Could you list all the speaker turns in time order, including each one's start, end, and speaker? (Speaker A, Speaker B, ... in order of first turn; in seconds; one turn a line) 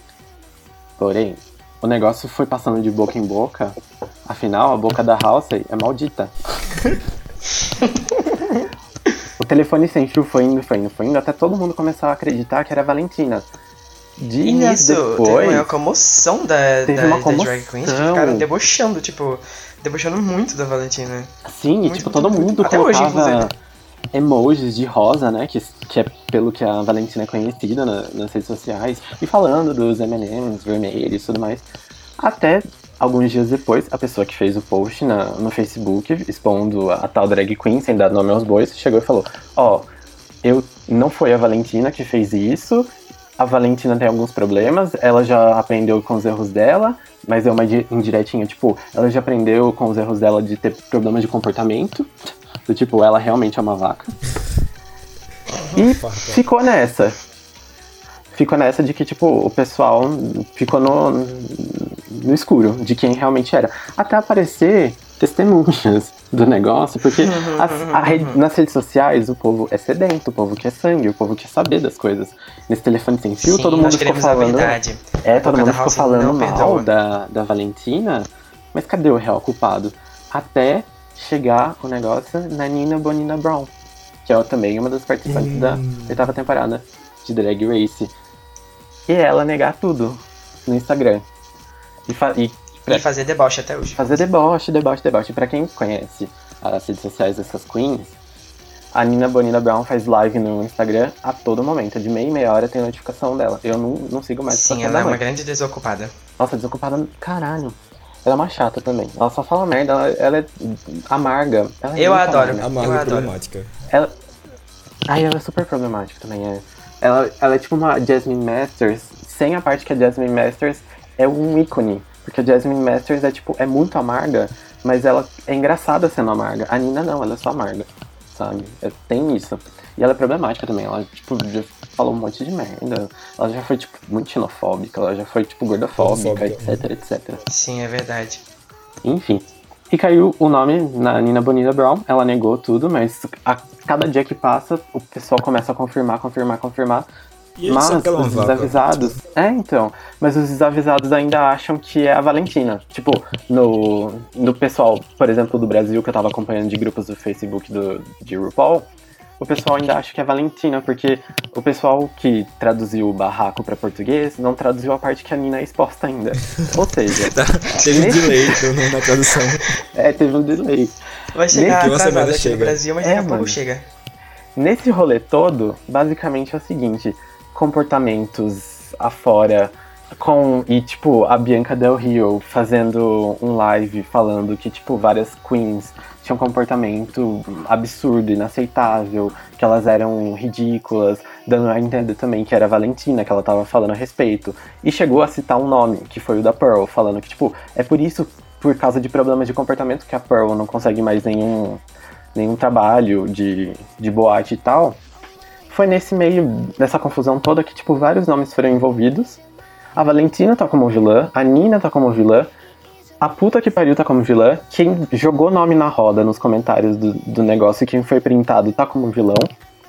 Speaker A: 1.0-6.3
Speaker A: 9.4-13.4
Speaker A: 14.2-15.7
Speaker B: 14.4-21.3
Speaker A: 16.9-18.5
Speaker A: 21.4-23.5
Speaker B: 21.8-23.5
Speaker A: 24.1-31.6
Speaker A: 32.2-39.9
Speaker A: 40.4-52.1
Speaker A: 52.7-54.1
Speaker C: 55.7-56.4
Speaker A: 55.8-57.2
Speaker A: 58.3-83.7
Speaker B: 67.2-68.4
Speaker B: 73.4-76.9
Speaker A: 84.2-88.1
Speaker C: 85.3-86.2
Speaker A: 89.1-91.2
Speaker A: 92.1-93.0
Speaker B: 92.9-94.1
Speaker A: 94.0-98.1
Speaker A: 98.9-105.2
Speaker B: 104.5-106.1
Speaker A: 106.4-113.0
Speaker B: 111.9-113.3
Speaker C: 112.6-113.7
Speaker A: 115.1-137.4
Speaker C: 136.0-136.8
Speaker B: 137.5-138.4
Speaker A: 139.0-147.1
Speaker C: 147.6-149.2
Speaker A: 147.7-158.9
Speaker A: 159.4-168.6
Speaker C: 167.2-169.8
Speaker A: 169.9-170.9
Speaker B: 171.3-173.8
Speaker A: 171.5-172.0
Speaker C: 171.7-172.8
Speaker A: 173.0-173.6
Speaker A: 174.6-201.8
Speaker A: 202.3-205.0
Speaker A: 205.7-209.4
Speaker A: 209.9-212.5
Speaker A: 213.2-219.5